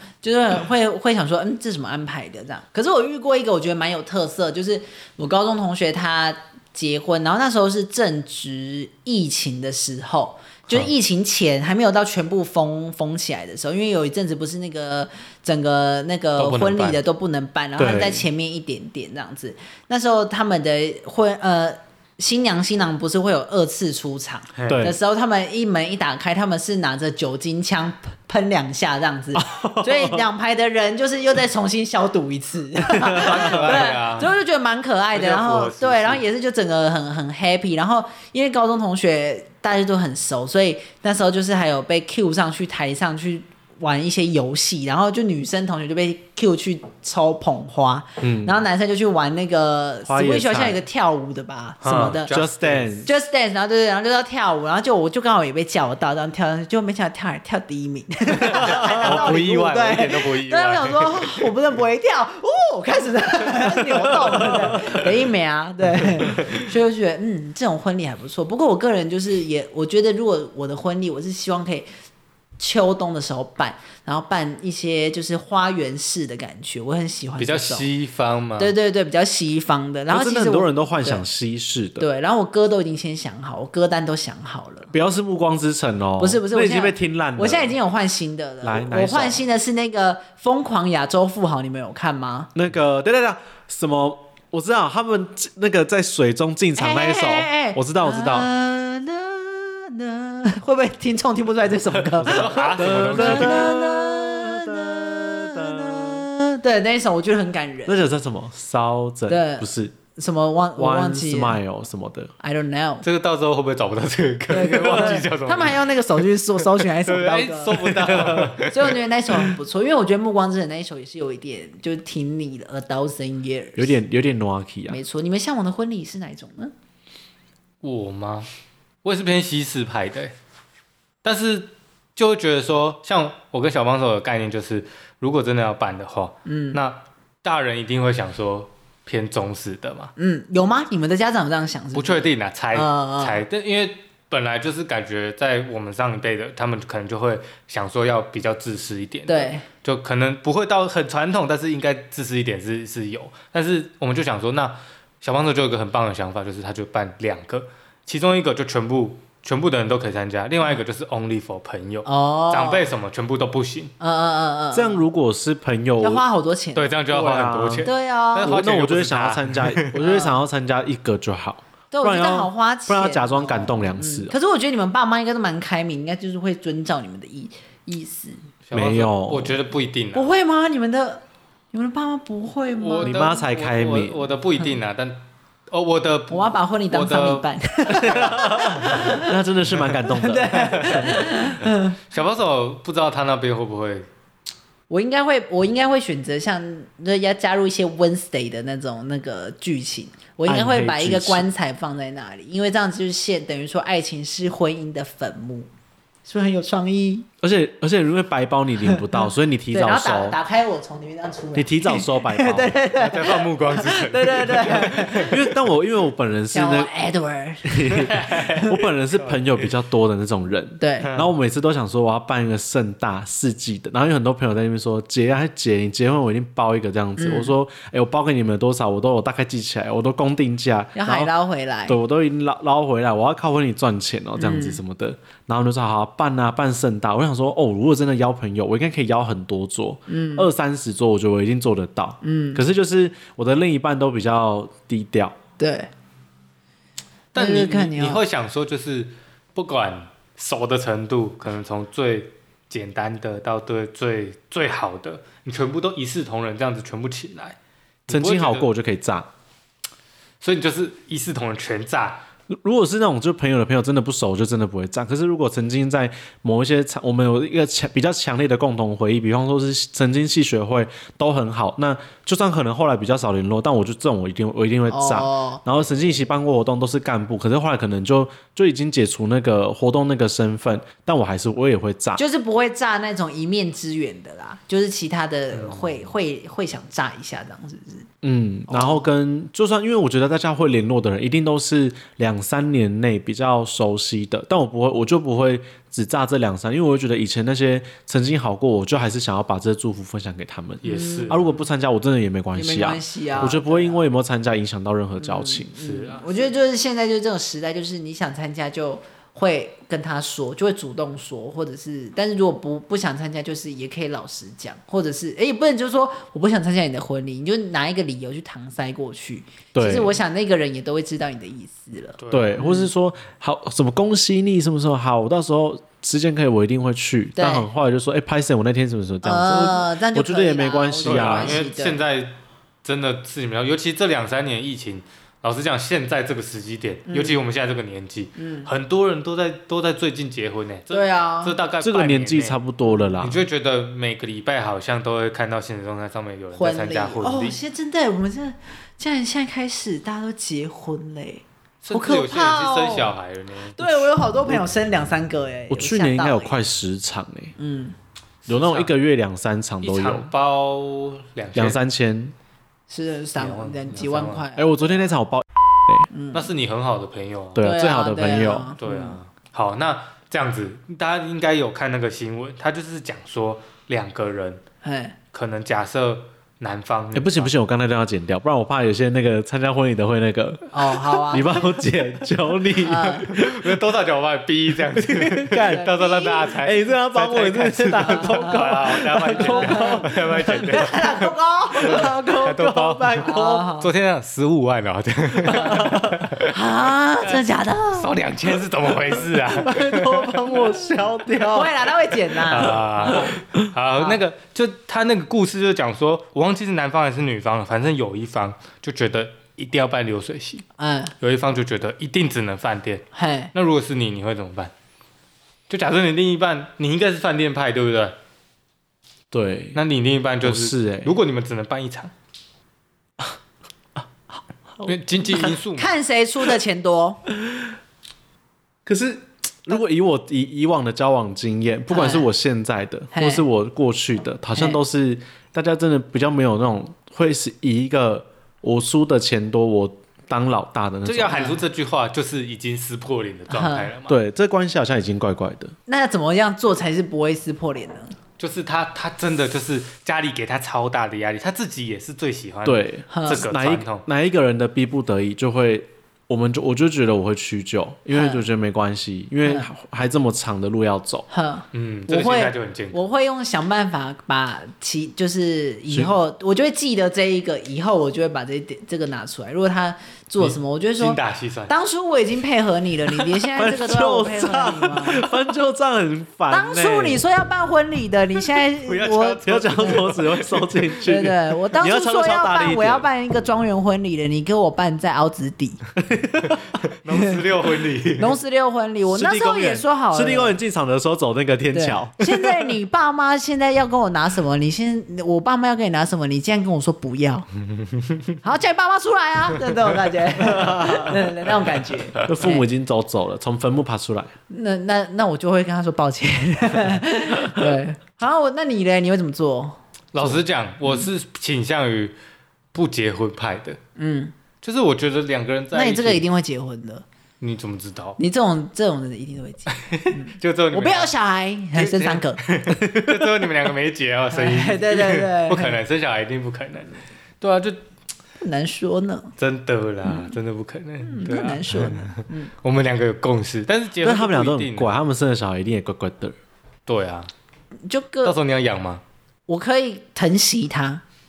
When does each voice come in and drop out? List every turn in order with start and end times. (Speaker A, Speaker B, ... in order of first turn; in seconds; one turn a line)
Speaker A: 0.2-52.3
Speaker B: 16.4-17.0
Speaker C: 17.8-18.2
Speaker B: 24.6-24.9
Speaker C: 24.7-24.9
Speaker C: 29.4-30.2
Speaker C: 33.0-33.9
Speaker B: 33.1-34.3
Speaker B: 35.1-36.2
Speaker C: 48.2-48.6
Speaker C: 50.0-50.8
Speaker B: 51.8-53.0
Speaker C: 52.3-53.1
Speaker A: 53.0-71.9
Speaker B: 58.4-61.5
Speaker C: 58.5-59.2
Speaker C: 64.0-64.7
Speaker A: 72.6-77.9
Speaker B: 77.4-78.7
Speaker A: 78.6-81.2
Speaker C: 80.1-82.0
Speaker A: 82.0-84.9
Speaker C: 84.9-87.8
Speaker A: 86.2-92.5
Speaker C: 88.6-89.4
Speaker C: 92.5-98.5
Speaker A: 96.8-108.0
Speaker B: 102.1-103.7
Speaker C: 102.2-106.2
Speaker C: 107.8-109.9
Speaker A: 109.3-111.6
Speaker C: 110.8-112.3
Speaker A: 112.4-113.0
Speaker B: 113.0-116.0
Speaker A: 114.5-124.0
Speaker B: 116.6-119.5
Speaker C: 117.9-118.5
Speaker C: 123.8-125.0
Speaker A: 124.9-126.7
Speaker B: 127.8-128.5
Speaker B: 129.0-130.3
Speaker B: 131.2-140.1
Speaker A: 136.4-136.8
Speaker A: 140.2-143.4
Speaker B: 141.9-163.9
Speaker A: 149.3-149.6
Speaker A: 162.0-162.9
Speaker A: 164.0-165.0
Speaker C: 164.7-166.2
Speaker A: 166.0-167.0
Speaker B: 166.7-170.0
Speaker C: 167.1-167.9
Speaker A: 167.8-168.6
Speaker C: 168.4-174.3
Speaker A: 170.0-170.4
Speaker A: 171.9-178.4
Speaker B: 178.7-180.3
Speaker C: 178.7-179.6
Speaker A: 180.1-181.2
Speaker A: 181.7-183.4
Speaker B: 182.8-188.2
Speaker C: 183.0-184.2
Speaker A: 186.3-189.3
Speaker C: 187.9-191.2
Speaker A: 190.1-192.0
Speaker B: 192.1-194.1
Speaker A: 194.9-205.7
Speaker C: 200.4-201.5
Speaker A: 206.2-207.3
Speaker C: 207.4-210.4
Speaker A: 208.8-215.5
Speaker C: 211.5-212.7
Speaker B: 212.9-215.4
Speaker C: 215.2-216.9
Speaker A: 216.5-218.7
Speaker C: 217.6-231.3
Speaker B: 218.1-218.7
Speaker A: 220.8-221.1
Speaker B: 221.0-221.3
Speaker A: 227.2-227.5
Speaker A: 230.9-232.0
Speaker C: 231.9-245.3
Speaker A: 234.4-234.8
Speaker A: 240.1-240.5
Speaker A: 242.2-242.6
Speaker A: 245.6-245.9
Speaker B: 247.3-258.7
Speaker A: 247.3-248.2
Speaker C: 258.1-259.3
Speaker B: 260.4-262.2
Speaker C: 262.5-282.2
Speaker A: 274.9-275.6
Speaker A: 282.1-288.1
Speaker B: 285.5-285.9
Speaker C: 288.2-305.7
Speaker A: 288.7-289.1
Speaker B: 300.8-301.4
Speaker A: 300.8-301.5
Speaker A: 302.5-304.1
Speaker A: 305.2-322.9
Speaker B: 305.8-306.5
Speaker C: 319.7-320.1
Speaker B: 322.2-322.6
Speaker C: 322.3-331.6
Speaker A: 327.4-327.7
Speaker A: 329.2-332.0
Speaker B: 331.0-342.6
Speaker A: 337.1-337.4
Speaker A: 338.4-338.7
Speaker A: 340.9-341.5
Speaker C: 341.8-343.4
Speaker B: 343.2-347.6
Speaker A: 346.5-353.1
Speaker B: 351.8-354.1
Speaker A: 353.8-356.6
Speaker C: 355.7-357.5
Speaker A: 357.6-357.9
Speaker B: 358.4-358.9
Speaker C: 358.5-360.3
Speaker B: 359.8-361.8
Speaker C: 361.5-362.3
Speaker A: 362.9-365.1
Speaker B: 363.4-364.4
Speaker C: 364.6-366.1
Speaker A: 366.1-366.5
Speaker B: 366.3-367.7
Speaker C: 367.5-368.7
Speaker A: 367.6-369.2
Speaker B: 368.8-374.6
Speaker A: 374.8-375.1
Speaker B: 375.3-377.5
Speaker C: 377.1-383.8
Speaker A: 380.7-381.7
Speaker A: 382.8-383.3
Speaker B: 383.3-391.3
Speaker C: 384.9-385.9
Speaker A: 385.6-386.5
Speaker C: 386.5-390.9
Speaker A: 388.0-388.6
Speaker A: 389.3-390.1
Speaker A: 390.7-392.1
Speaker C: 391.7-393.7
Speaker B: 391.8-396.5
Speaker A: 393.2-393.9
Speaker C: 395.5-396.2
Speaker A: 396.4-398.1
Speaker B: 397.9-400.7
Speaker C: 399.5-401.9
Speaker A: 401.5-402.8
Speaker B: 402.5-410.6
Speaker C: 402.6-403.7
Speaker A: 410.8-411.1
Speaker B: 411.2-414.7
Speaker A: 413.1-413.5
Speaker B: 415.7-418.1
Speaker C: 419.3-419.8
Speaker B: 419.7-422.1
Speaker C: 420.4-421.1
Speaker B: 424.9-425.9
Speaker A: 425.3-427.2
Speaker C: 428.9-441.5
Speaker A: 431.9-432.3
Speaker A: 433.1-433.4
Speaker B: 441.0-444.2
Speaker A: 441.3-441.6
Speaker A: 443.5-443.9
Speaker C: 444.1-445.7
Speaker A: 445.9-448.1
Speaker B: 448.4-454.0
Speaker C: 452.6-461.3
Speaker A: 453.1-453.5
Speaker A: 458.1-458.4
Speaker A: 459.4-459.7
Speaker A: 461.3-475.3
Speaker B: 461.7-463.0
Speaker C: 465.9-466.1
Speaker B: 470.4-471.7
Speaker C: 473.6-477.2
Speaker A: 476.5-480.1
Speaker B: 478.7-480.7
Speaker C: 479.4-483.1
Speaker A: 481.0-485.8
Speaker C: 486.0-486.6
Speaker B: 486.8-488.4
Speaker A: 488.2-490.6
Speaker C: 489.0-492.7
Speaker A: 491.7-497.5
Speaker A: 498.4-502.6
Speaker C: 500.4-501.2
Speaker C: 502.2-504.3
Speaker A: 504.5-509.8
Speaker B: 510.1-512.1
Speaker B: 512.7-513.8
Speaker A: 514.0-514.3
Speaker B: 514.6-516.2
Speaker A: 515.7-517.0
Speaker B: 517.4-518.2
Speaker A: 518.2-522.4
Speaker B: 519.7-521.1
Speaker B: 521.7-527.8
Speaker C: 522.8-523.2
Speaker A: 524.3-525.8
Speaker A: 528.4-529.3
Speaker B: 529.4-534.9
Speaker A: 530.0-530.4
Speaker A: 531.0-532.5
Speaker C: 534.0-536.3
Speaker B: 536.9-537.3
Speaker A: 537.9-538.3
Speaker B: 538.2-539.0
Speaker A: 539.5-541.0